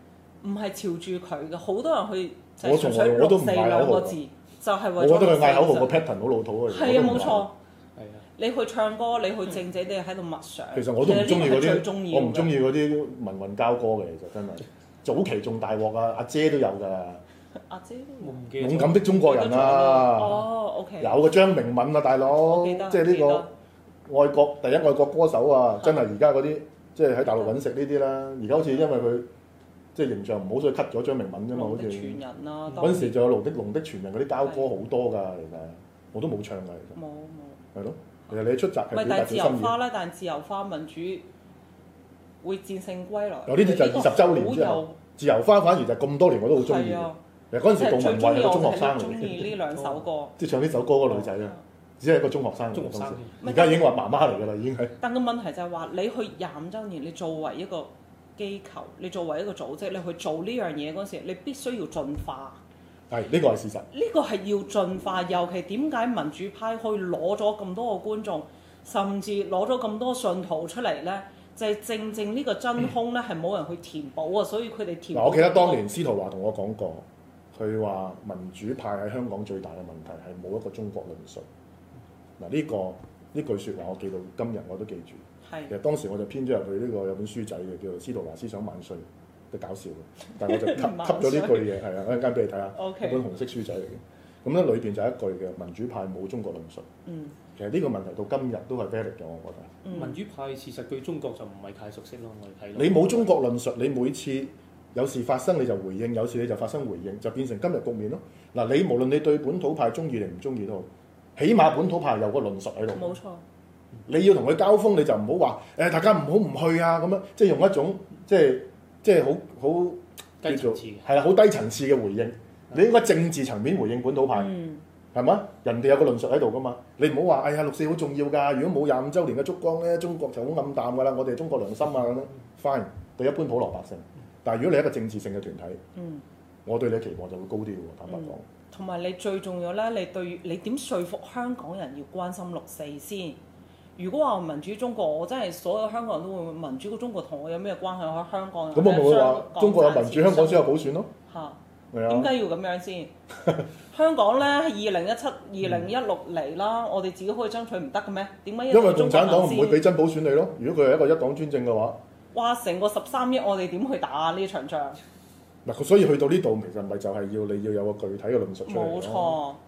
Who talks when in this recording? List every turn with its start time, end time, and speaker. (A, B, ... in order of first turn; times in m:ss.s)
0:00.4-0:06.1 A
0:02.6-0:04.2 B
0:05.0-0:07.5 B
0:06.7-0:07.6 A
0:08.0-0:08.2 C
0:08.4-0:12.6 A
0:10.7-0:17.2 B
0:17.7-0:21.2 A
0:18.2-0:19.1 C
0:18.6-0:20.4 B
0:21.0-0:23.5 B
0:22.4-0:23.5 A
0:24.1-0:29.3 B
0:30.0-0:32.2 B
0:31.5-0:33.2 A
0:32.8-0:37.0 B
0:37.0-0:37.6 A
0:37.8-0:39.8 B
0:38.9-0:41.3 A
0:42.4-0:45.0 A
0:43.5-0:49.6 B
0:46.6-0:47.2 A
0:47.7-0:50.4 A
0:50.4-0:55.0 B
0:52.7-0:53.4 C
0:53.4-0:54.0 A
0:55.0-1:02.6 A
1:03.1-1:03.9 B
1:03.9-1:15.9 A
1:15.1-1:21.4 B
1:22.4-1:36.8 B
1:25.4-1:25.7 A
1:30.4-1:31.7 A
1:32.8-1:33.2 A
1:37.1-1:37.4 A
1:37.6-1:39.8 B
1:39.8-1:40.2 A
1:39.9-1:43.3 C
1:42.8-1:53.1 B
1:53.0-1:53.4 A
1:54.1-2:04.6 B
2:00.4-2:01.1 C
2:04.3-2:04.8 A
2:05.1-2:15.8 B
2:16.0-2:16.2 A
2:16.7-2:18.4 B
2:18.1-2:23.4 A
2:24.0-2:33.1 A
2:28.7-2:31.1 B
2:31.9-2:32.3 B
2:33.8-2:39.9 A
2:38.7-2:42.0 B
2:42.3-2:45.0 A
2:45.6-2:49.4 B
2:48.7-2:49.6 A